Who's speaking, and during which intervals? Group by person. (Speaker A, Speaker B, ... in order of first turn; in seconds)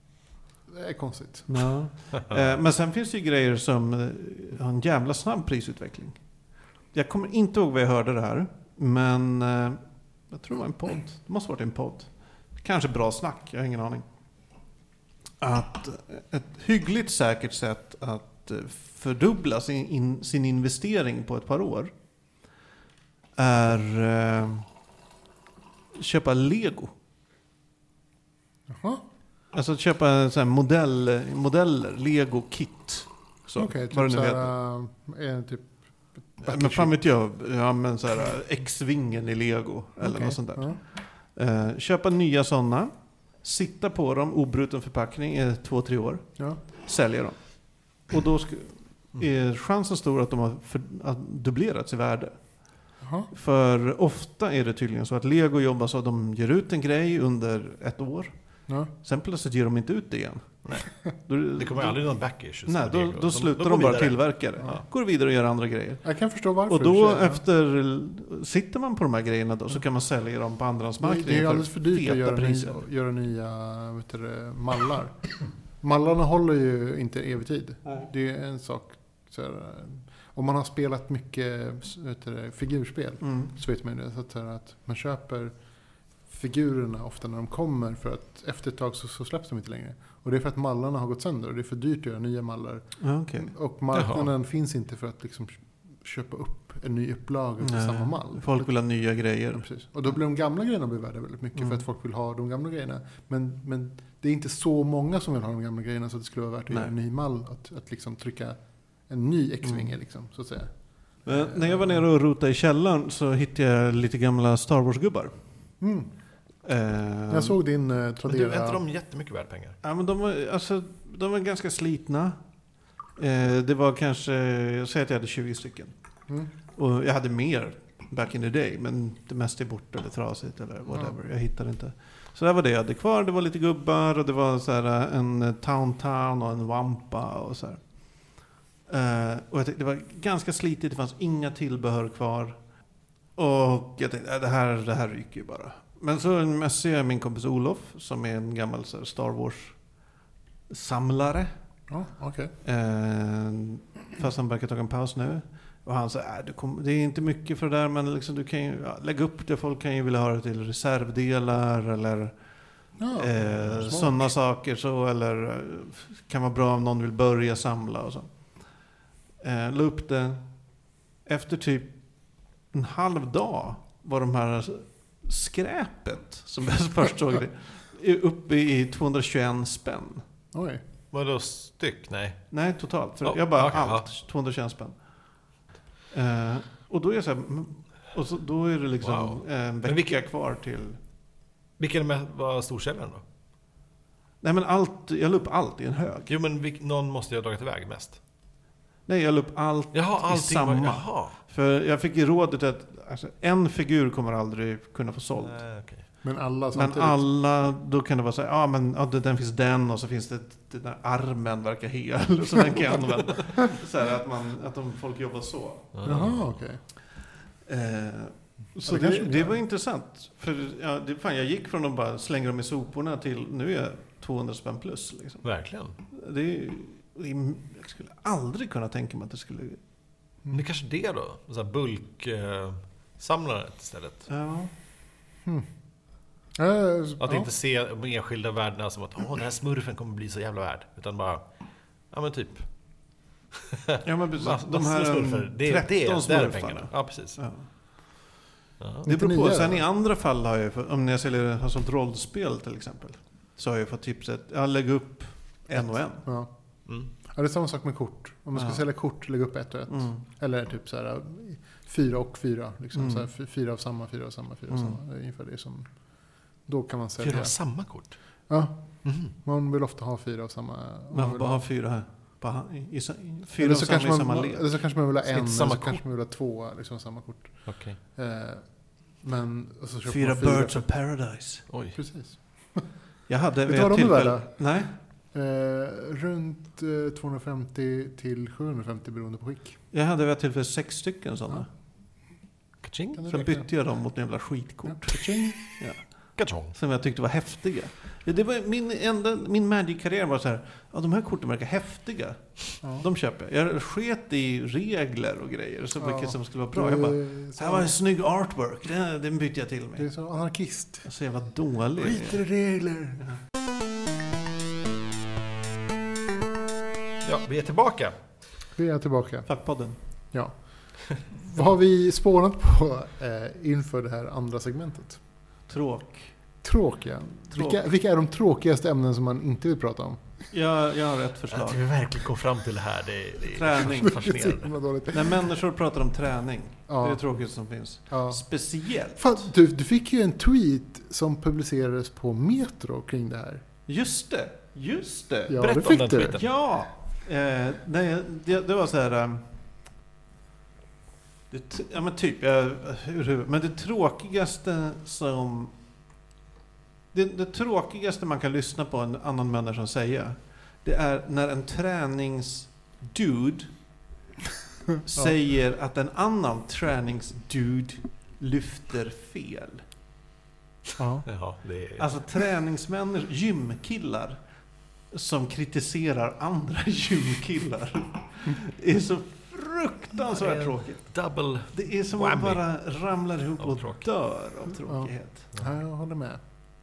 Speaker A: 0.7-1.6, 28.7-29.0, 33.6-36.9, 40.0-40.8, 53.0-53.3, 66.0-67.4, 71.0-85.5, 86.3-98.7, 99.5-108.6, 109.1-112.0, 115.8-116.1, 117.3-118.8, 151.9-152.5, 163.0-164.3, 180.5-180.8, 206.2-207.2, 216.0-216.8, 218.8-219.6, 236.6-237.5, 249.0-249.8, 255.8-256.5, 257.2-265.9, 266.6-267.5, 268.5-271.6, 273.6-280.8, 281.9-282.9, 283.6-284.8, 285.3-289.8, 293.1-293.6, 294.8-295.6, 306.0-307.9, 310.0-311.1, 318.7-319.5, 320.3-325.2, 326.6-330.2, 333.8-335.4, 336.9-337.2, 338.1-338.4, 339.1-343.6, 345.5-346.4, 371.0-371.2, 384.9-386.4
Speaker B: 1.5-6.2, 6.9-14.0, 15.4-21.9, 23.4-24.6, 26.0-26.9, 29.5-34.5, 36.4-58.3, 59.0-62.0, 62.6-66.0, 66.7-72.8, 83.2-83.5, 93.0-93.5, 97.6-99.7, 101.5-101.8, 109.6-109.9, 111.2-115.3, 116.6-117.5, 119.8-122.4, 123.2-125.9, 126.7-142.6, 143.3-149.8, 150.7-151.5, 152.6-162.4, 163.0-168.6, 169.4-170.5, 171.2-171.9, 172.7-180.2, 182.5-185.0, 186.1-191.0, 194.4-196.3, 199.1-205.6, 206.7-215.9, 217.7-225.5, 226.1-229.8, 234.3-234.7, 244.0-247.7, 249.0-256.2, 258.5-258.8, 259.9-260.2, 262.9-263.3, 264.7-265.0, 271.1-274.6, 280.1-281.6, 283.3-284.9, 289.9-291.7, 293.3-310.1, 311.0-312.4, 319.4-319.9, 325.7-326.3, 327.5-327.8, 330.5-331.8, 333.5-334.2, 335.1-339.5, 343.9-345.6, 346.3-349.4, 351.5-355.7, 357.1-363.7, 365.0-369.8, 372.0-374.4, 375.1-381.1, 381.7-385.5
Speaker C: 61.5-64.8, 93.9-94.2, 118.3-119.8, 181.1-182.5, 183.2-184.1, 189.0-190.2, 191.8-193.2, 196.3-198.2, 199.9-201.4, 205.4-206.1, 215.9-216.6, 225.4-225.9, 230.5-234.3, 237.2-241.4, 242.1-242.7, 243.7-247.4, 248.8-249.1, 267.2-268.2, 269.0-269.3, 275.3-276.0, 277.6-278.0, 281.7-281.9, 292.8-293.2, 296.4-296.7, 312.4-313.1, 317.2-318.1, 331.5-334.7, 345.6-346.4, 371.2-372.1, 380.3-382.6, 383.6-384.0